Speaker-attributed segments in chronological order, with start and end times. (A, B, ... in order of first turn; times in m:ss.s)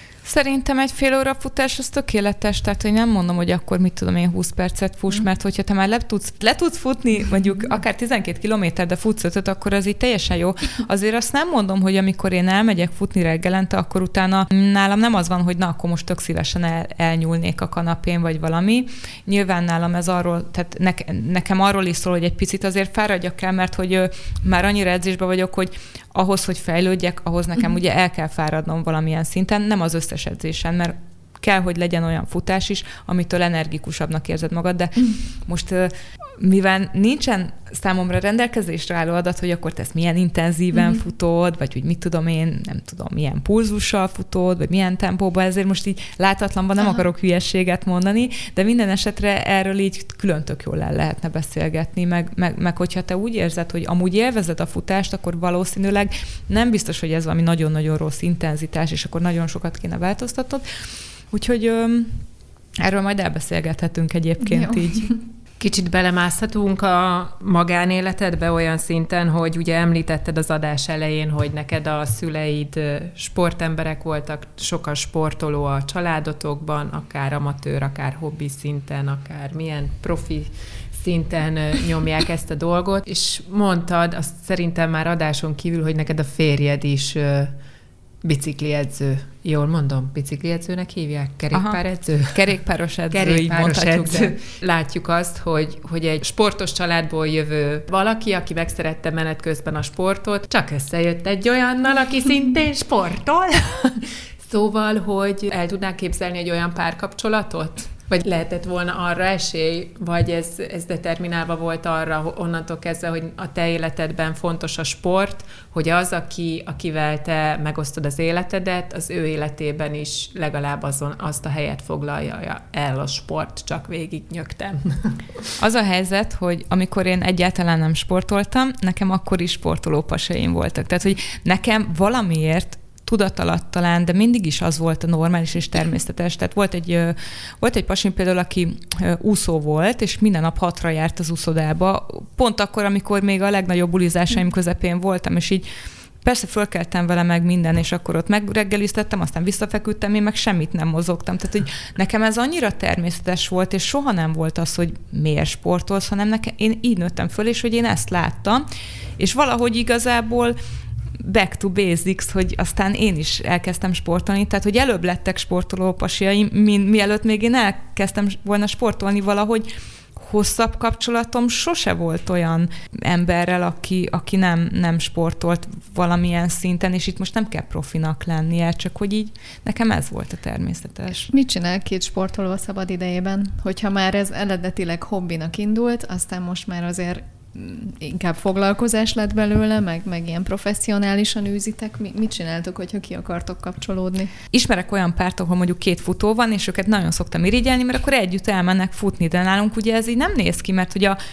0:00.2-1:00.6 A
1:01.3-1:02.2 A
1:02.8-1:05.1 A
1:04.4-1:05.2 B
1:05.6-1:27.5 C
1:28.2-1:32.4 C
1:31.5-1:34.4 A
1:33.1-2:05.4 C
2:05.6-2:25.6 A
2:26.2-2:38.6 A
2:39.2-2:40.6 A
2:41.2-3:01.3 A
3:01.3-3:14.3 B
3:14.5-3:21.2 A